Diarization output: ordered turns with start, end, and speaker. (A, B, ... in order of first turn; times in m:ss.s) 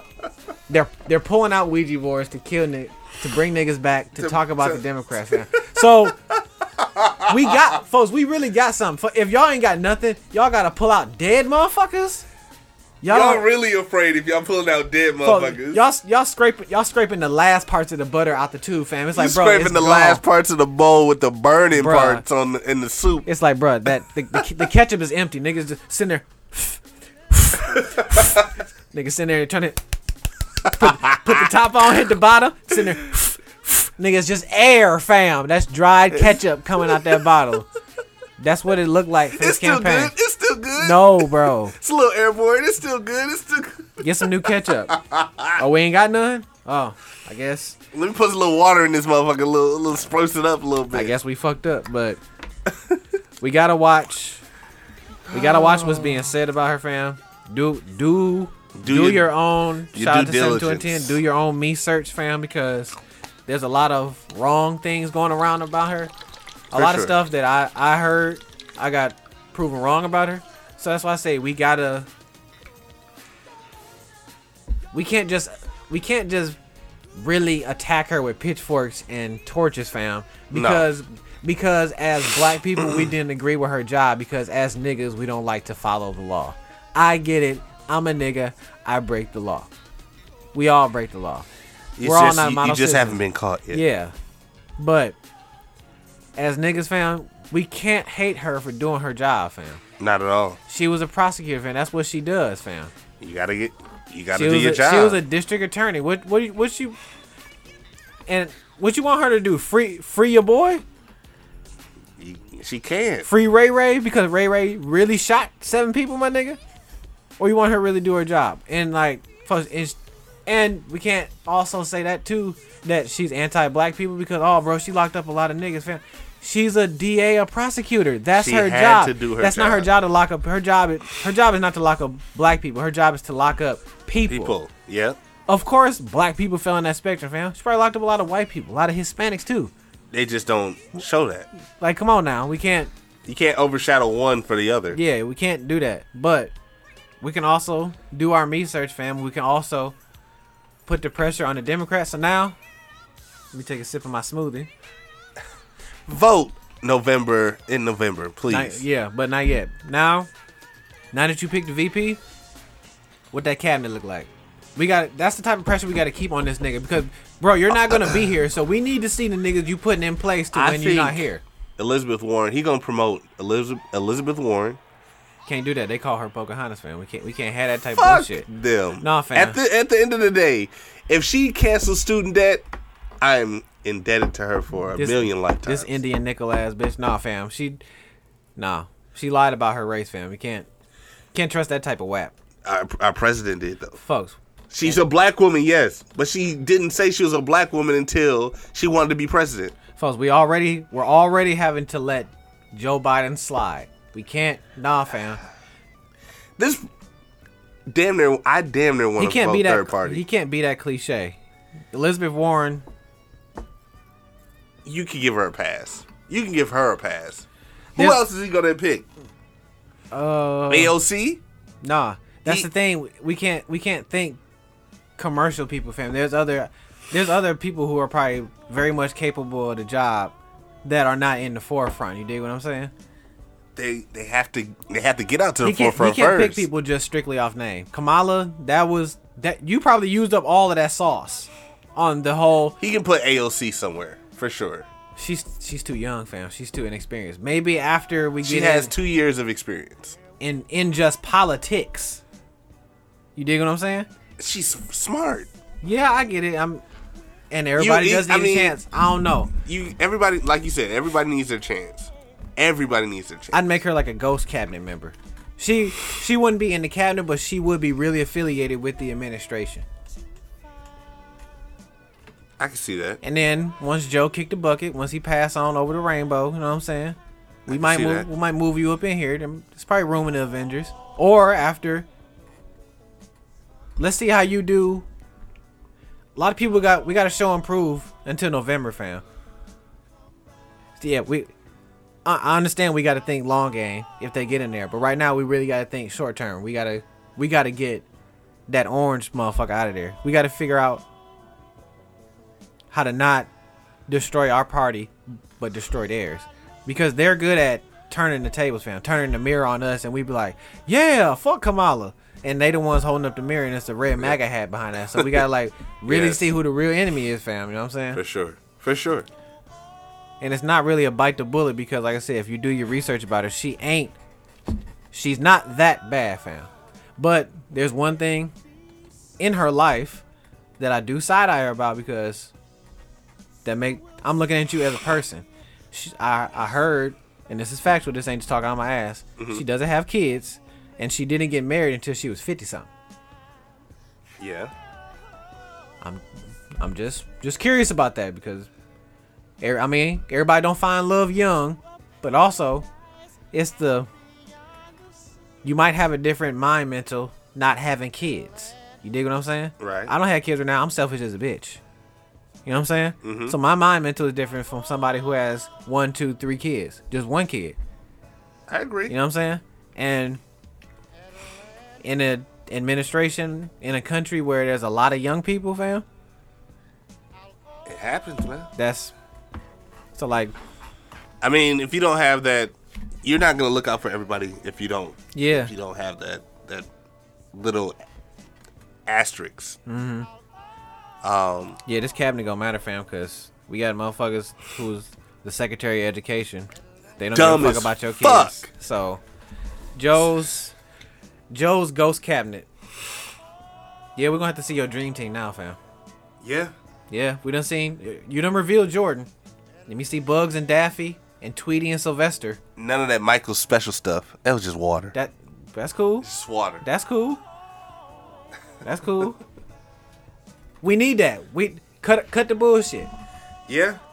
0:00.7-0:06.2 A
0:04.2-0:04.8 B
0:06.3-0:07.6 B
0:07.2-0:12.2 A
0:13.0-0:13.4 A
0:13.1-0:15.8 B
0:15.2-0:20.2 A
0:19.2-0:23.3 B
0:21.7-0:22.2 A
0:23.3-0:29.8 A
0:30.7-0:37.7 A
0:30.8-0:31.2 B
0:38.4-0:40.1 A
0:39.4-0:44.0 B
0:40.8-0:41.7 A
0:44.0-0:45.0 A
0:44.9-0:45.6 B
0:45.6-0:47.8 A
0:47.9-0:51.1 B
0:50.9-0:52.2 A
0:53.4-0:54.4 A
0:55.3-1:03.0 A
0:55.3-0:56.2 B
0:58.8-0:59.3 B
0:59.9-1:01.2 B
1:03.5-1:06.1 A
1:06.7-1:07.1 B
1:06.7-1:12.1 A
1:14.9-1:16.6 A
1:17.1-1:29.7 A
1:20.5-1:20.8 B
1:22.8-1:23.1 B
1:30.5-1:31.5 A
1:32.0-1:33.8 B
1:32.0-1:33.2 A
1:33.7-1:34.1 A
1:34.8-1:35.2 A
1:36.4-1:39.8 A
1:40.0-1:40.6 B
1:40.7-1:42.9 A
1:43.2-1:45.2 B
1:44.3-1:47.0 A
1:48.3-1:50.8 A
1:52.2-1:53.3 B
1:53.3-1:56.6 A
1:57.4-2:14.5 A
2:08.4-2:09.9 B
2:14.3-2:15.2 B
2:15.5-2:19.7 A
2:20.1-2:21.5 B
2:21.8-2:22.9 A
2:23.2-2:25.0 B
2:24.9-2:26.5 A
2:27.2-2:30.0 A
2:30.9-2:32.6 A
2:33.5-2:34.7 A
2:36.1-2:38.8 B
2:38.5-2:40.3 A
2:41.1-2:42.2 A
2:43.3-2:51.4 A
2:50.5-2:51.3 B
2:51.8-2:54.8 B
2:55.4-2:58.4 A
2:58.0-3:02.6 B
2:59.0-2:59.6 A
3:03.2-3:05.9 B
3:05.0-3:07.8 A
3:08.6-3:10.7 A
3:11.3-3:12.3 A
3:12.6-3:14.0 B
3:14.0-3:15.0 A
3:14.7-3:19.8 B
3:20.0-3:25.4 A
3:26.6-3:26.9 B
3:27.9-3:30.2 B
3:29.2-3:31.4 A
3:31.9-3:32.8 A
3:34.8-3:39.1 B
3:40.1-3:41.0 A
3:40.7-3:41.4 B
3:41.8-3:44.4 A
3:45.2-3:52.9 A
3:53.8-3:56.6 B
3:55.6-4:02.8 A
4:02.8-4:04.9 B
4:05.2-4:08.9 A
4:08.4-4:10.2 B
4:10.4-4:12.2 A
4:13.4-4:14.1 A
4:14.4-4:15.5 B
4:15.8-4:16.8 A
4:17.5-4:19.5 A
4:17.8-4:18.8 B
4:19.6-4:23.6 B
4:23.5-4:29.8 A
4:32.6-4:33.2 B
4:33.2-4:42.1 A
4:37.7-4:38.3 B
4:44.0-4:45.1 A
4:46.4-4:49.2 A
4:51.0-4:51.5 A
4:52.2-4:58.1 A
4:58.7-5:01.0 A
5:02.9-5:03.5 A
5:04.1-5:18.2 A
5:15.1-5:15.4 B
5:16.1-5:16.5 B
5:18.1-5:19.3 B
5:20.4-5:24.1 A
5:25.1-5:28.5 A
5:29.4-5:30.2 A
5:30.8-5:32.5 A
5:33.6-5:42.9 A
5:39.4-5:39.6 B
5:44.4-5:44.7 B
5:46.8-5:48.7 A
5:49.6-5:52.9 A
5:53.5-5:54.1 A
5:55.6-6:01.8 A
5:59.8-6:00.1 B
6:02.6-6:07.8 A
6:03.2-6:03.6 B
6:08.7-6:09.1 B
6:09.1-6:10.4 A
6:12.0-6:16.0 A
6:17.9-6:18.7 B
6:18.8-6:19.1 A
6:20.1-6:20.5 A
6:21.4-6:26.9 B
6:25.3-6:25.7 A
6:27.5-6:28.0 B
6:29.1-6:29.8 B
6:29.9-6:30.3 A
6:31.2-6:31.8 B
6:31.9-6:39.2 A
6:37.4-6:38.7 B
6:40.0-6:40.7 A
6:41.5-6:42.7 A
6:44.2-6:45.8 A
6:46.4-6:46.7 B
6:47.1-6:49.3 A
6:49.9-6:52.6 A
6:52.8-6:55.1 B
6:55.1-6:56.3 A
6:56.2-6:56.8 B
6:56.8-6:57.4 A
6:58.8-6:59.4 A
7:00.8-7:03.1 A
7:03.7-7:04.0 B